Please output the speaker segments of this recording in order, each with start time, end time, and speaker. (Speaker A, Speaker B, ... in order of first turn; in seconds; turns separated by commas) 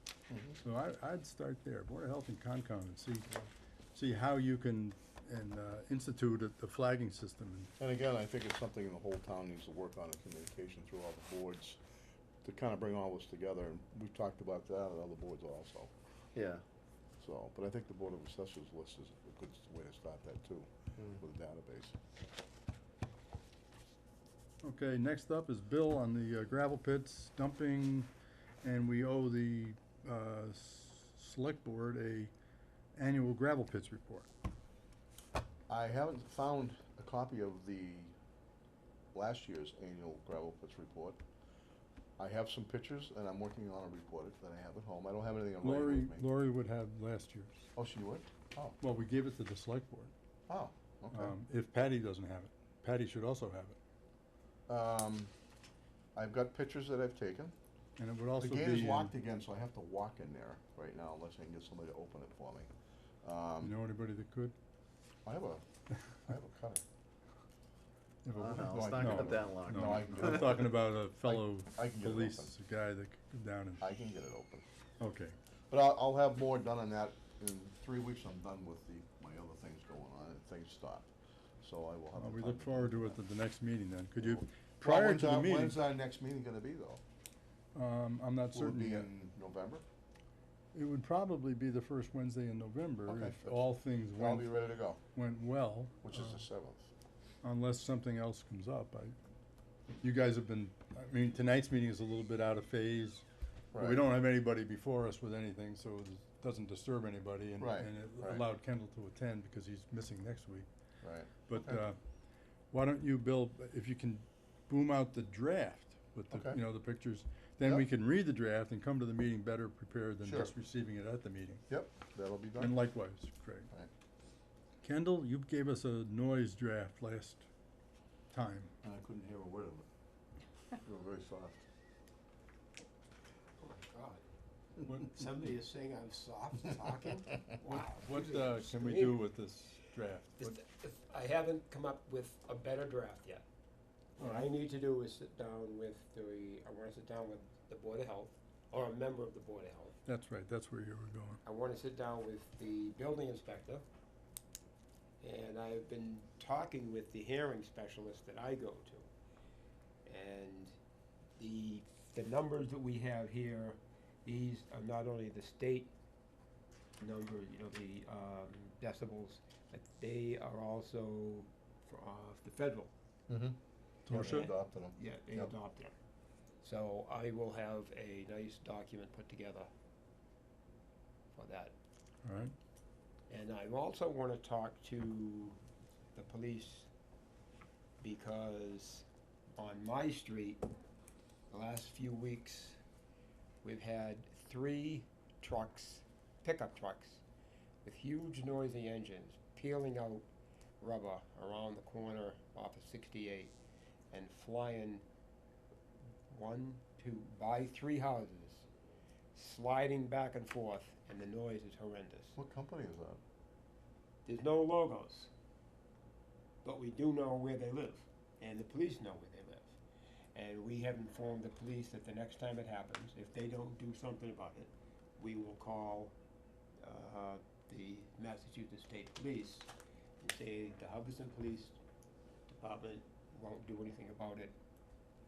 Speaker A: 0.3-0.6, Speaker B: 0.6-3.3, Speaker B: 3.9-7.7, Speaker A: 7.8-11.8, Speaker A: 12.4-15.9, Speaker C: 16.3-16.6, Speaker A: 17.2-21.9, Speaker B: 24.6-28.1, Speaker B: 28.6-32.3, Speaker B: 33.0-34.3, Speaker A: 35.7-38.1, Speaker A: 39.1-41.2, Speaker A: 42.2-46.2, Speaker B: 45.6-47.7, Speaker A: 47.8-48.8, Speaker B: 48.8-50.1, Speaker A: 50.5-51.3, Speaker B: 51.1-53.8, Speaker A: 54.7-55.3, Speaker A: 56.1-57.5, Speaker B: 58.0-59.1, Speaker A: 58.4-62.7, Speaker A: 63.2-63.7, Speaker B: 63.6-64.5, Speaker A: 65.2-65.6, Speaker A: 66.2-66.8, Speaker B: 68.2-73.9, Speaker A: 68.3-72.5, Speaker C: 68.4-70.5, Speaker A: 73.8-74.6, Speaker B: 75.0-75.3, Speaker A: 75.7-81.1, Speaker A: 81.6-83.2, Speaker B: 82.2-85.8, Speaker A: 84.2-87.0, Speaker B: 87.7-89.1, Speaker A: 88.5-89.8, Speaker B: 90.7-94.5, Speaker A: 93.1-93.6, Speaker A: 94.1-95.0, Speaker B: 95.1-96.4, Speaker A: 96.0-96.9, Speaker B: 97.4-99.1, Speaker B: 100.0-103.2, Speaker A: 103.7-104.0, Speaker B: 103.8-110.7, Speaker A: 107.6-108.4, Speaker A: 111.0-111.8, Speaker B: 111.5-112.0, Speaker B: 112.7-121.6, Speaker A: 116.3-116.6, Speaker A: 120.2-120.5, Speaker A: 121.7-122.8, Speaker B: 122.6-123.7, Speaker B: 124.8-127.5, Speaker B: 128.3-128.7, Speaker A: 128.8-129.8, Speaker A: 130.8-131.6, Speaker D: 133.6-134.2, Speaker D: 134.8-139.2, Speaker B: 137.6-140.6, Speaker D: 140.4-143.4, Speaker D: 144.2-149.9, Speaker B: 144.2-144.5, Speaker B: 150.1-151.4, Speaker D: 151.4-153.8, Speaker D: 155.2-159.1, Speaker D: 160.0-160.7, Speaker D: 161.4-165.9, Speaker D: 167.0-172.9, Speaker A: 173.3-173.6, Speaker B: 174.1-174.5, Speaker A: 174.1-175.5, Speaker D: 174.1-175.9, Speaker D: 176.6-179.7, Speaker D: 181.3-181.7, Speaker B: 182.2-182.5, Speaker D: 183.3-185.6, Speaker D: 186.1-186.9, Speaker D: 188.0-190.6, Speaker D: 191.5-192.8, Speaker D: 193.6-197.2, Speaker D: 197.8-200.2, Speaker D: 200.8-203.5, Speaker D: 204.1-205.0, Speaker D: 206.3-208.7, Speaker D: 209.3-212.3, Speaker A: 212.3-213.2, Speaker D: 214.2-215.3, Speaker D: 216.6-219.7, Speaker D: 220.3-226.1, Speaker D: 226.8-229.7, Speaker D: 230.2-231.8, Speaker D: 232.5-234.5